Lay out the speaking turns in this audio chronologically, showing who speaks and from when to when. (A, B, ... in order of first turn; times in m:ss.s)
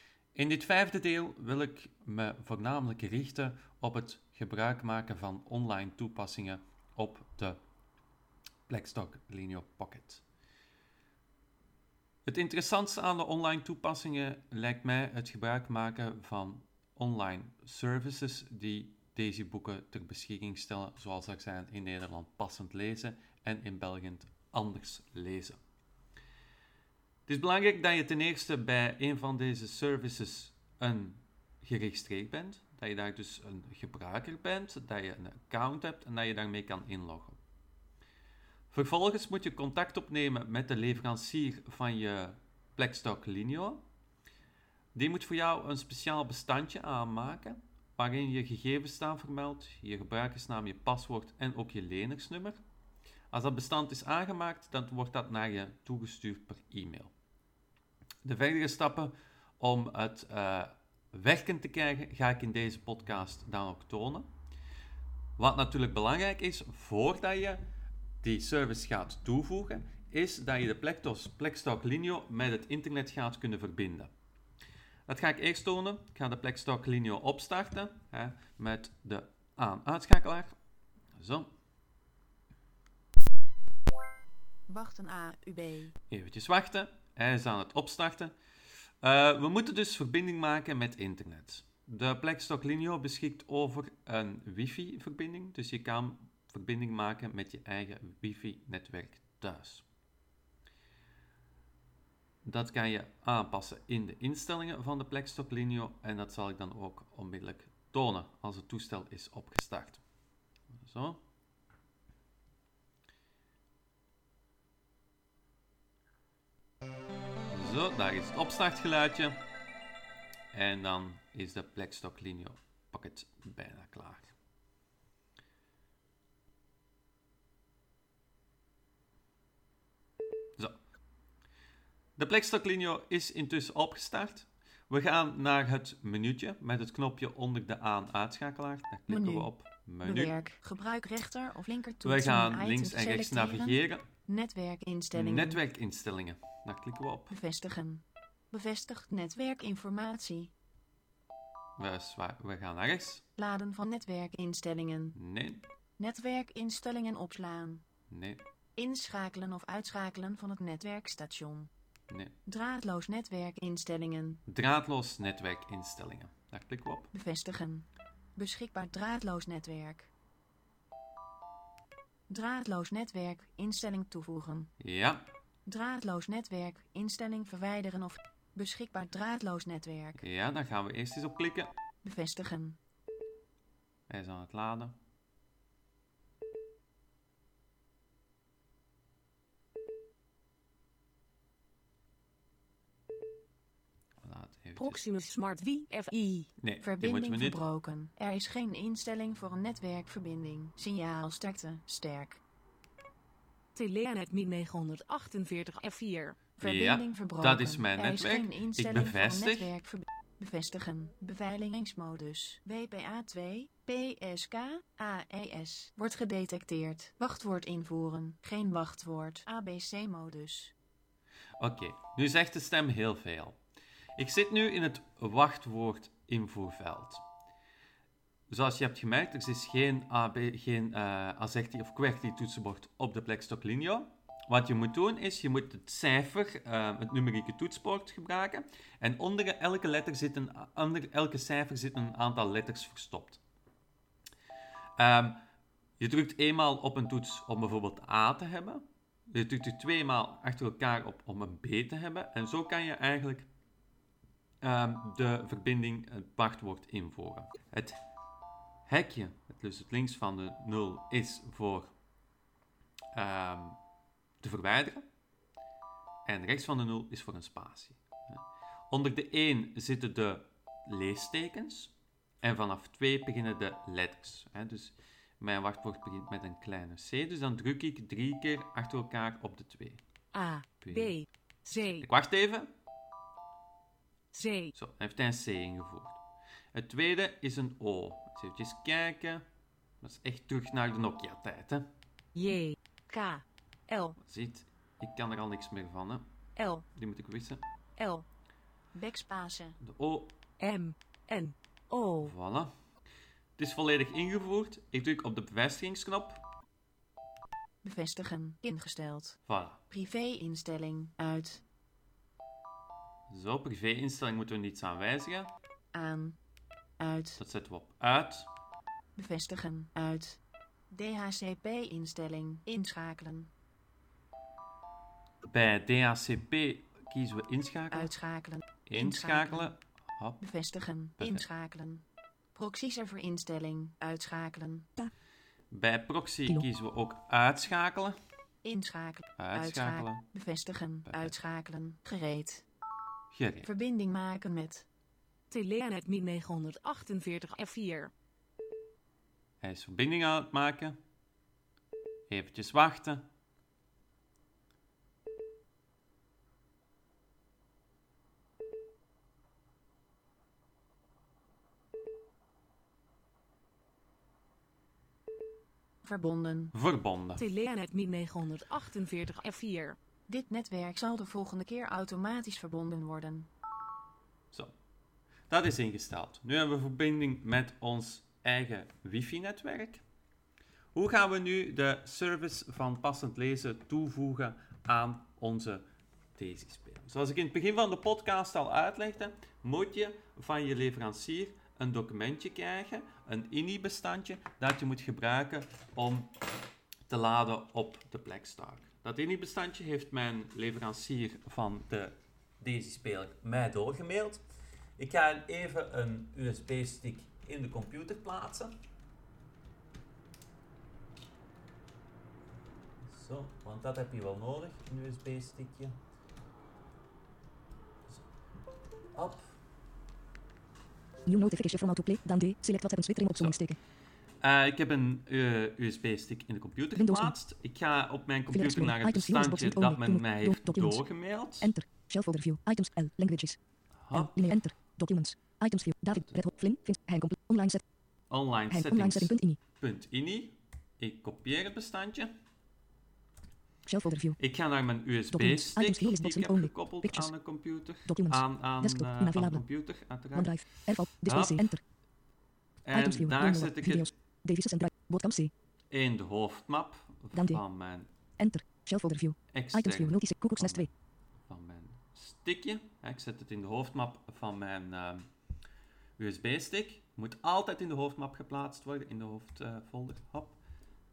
0:00.4-0:07.6 A
0:08.7-0:10.2 A
0:12.3-0:25.6 A
0:27.3-0:37.4 A
0:38.7-0:43.8 A
0:45.0-0:52.6 A
0:53.3-0:57.1 A
0:58.2-1:04.3 A
1:05.4-1:07.6 A
1:08.2-1:14.1 A
1:15.1-1:20.6 A
1:21.2-1:21.5 A
1:24.7-1:26.0 B
1:26.1-1:28.3 A
1:29.0-1:39.8 A
1:42.4-1:50.0 A
1:50.8-1:51.2 A
1:57.5-1:59.4 A
2:00.5-2:04.3 A
2:12.2-2:20.4 A
2:19.1-2:19.5 B
2:20.0-2:25.6 B
2:22.0-2:24.1 A
2:25.1-2:27.4 A
2:27.3-2:30.5 B
2:31.8-2:33.2 A
2:33.4-2:35.2 B
2:35.2-2:35.6 A
2:36.0-2:37.8 B
2:38.1-2:38.4 A
2:38.8-2:41.7 B
2:42.5-2:44.4 B
2:44.5-2:47.1 A
2:47.1-2:50.1 B
2:52.3-2:54.7 B
2:54.8-2:55.3 A
2:55.7-3:00.2 B
3:00.2-3:01.7 A
3:02.0-3:02.8 B
3:04.1-3:05.0 A
3:14.2-3:15.0 A
3:14.8-3:16.5 C
3:16.6-3:17.6 A
3:16.8-3:22.4 B
3:23.8-3:26.4 C
3:26.6-3:29.7 A
3:26.6-3:40.7 B
3:41.6-3:43.6 A
3:44.2-3:47.2 A
3:48.5-4:03.4 A
4:05.0-4:05.4 A
4:06.0-4:13.5 A
4:14.6-4:18.0 A
4:18.9-4:21.9 A
4:23.1-4:23.8 A
4:24.4-4:25.0 A
4:26.3-4:40.0 A
4:40.3-4:42.1 C
4:40.8-4:41.1 A
4:41.8-4:42.7 A
4:44.3-4:44.7 C
4:44.8-4:46.2 A
4:46.7-4:49.4 A
4:50.0-4:51.9 A
4:52.4-4:54.2 C
4:54.2-4:56.3 A
4:56.6-4:56.9 C
4:57.0-4:57.6 A
4:58.0-4:58.2 C
4:58.9-4:59.8 B
4:59.8-5:00.4 A
5:00.6-5:02.3 C
5:02.2-5:02.7 A
5:03.6-5:06.4 A
5:07.8-5:09.4 B
5:09.5-5:09.8 A
5:09.9-5:11.6 B
5:13.3-5:15.5 A
5:15.9-5:16.4 B
5:17.0-5:17.4 B
5:17.4-5:18.5 A
5:19.2-5:20.4 B
5:20.9-5:23.5 B
5:25.5-5:28.1 A
5:27.9-5:29.7 B
5:28.9-5:30.4 A
5:30.4-5:34.9 B
5:31.2-5:31.4 A
5:35.7-5:38.2 A
5:38.6-5:42.6 B
5:39.4-5:40.2 A
5:41.1-5:41.3 A
5:43.3-5:43.7 A
5:43.6-5:44.9 B
5:45.5-5:48.1 C
5:49.6-5:51.0 A
5:52.3-5:53.3 A
6:06.0-6:06.7 B
6:06.7-6:07.5 A
6:07.4-6:10.0 C
6:10.3-6:13.5 B
6:15.5-6:20.0 A
6:20.9-6:36.3 A
6:37.1-6:44.4 A
6:45.0-6:48.8 A
6:53.1-6:56.0 A
6:59.2-6:59.6 A
7:01.3-7:03.8 D
7:04.4-7:11.7 A
7:06.9-7:07.4 D
7:08.5-7:13.6 D
7:14.0-7:14.6 A
7:14.1-7:17.8 D
7:18.3-7:22.3 A
7:18.7-7:19.6 D
7:23.9-7:24.4 D
7:24.4-7:30.6 A
7:25.3-7:27.3 D
7:28.1-7:29.6 D
7:30.3-7:31.8 D
7:31.2-7:31.8 A
7:32.9-7:34.1 A
7:32.9-7:35.5 D
7:35.9-7:38.1 A
7:37.3-7:37.6 D
7:38.4-7:40.9 D
7:39.5-7:40.9 A
7:41.5-7:45.3 A
7:46.2-7:50.6 A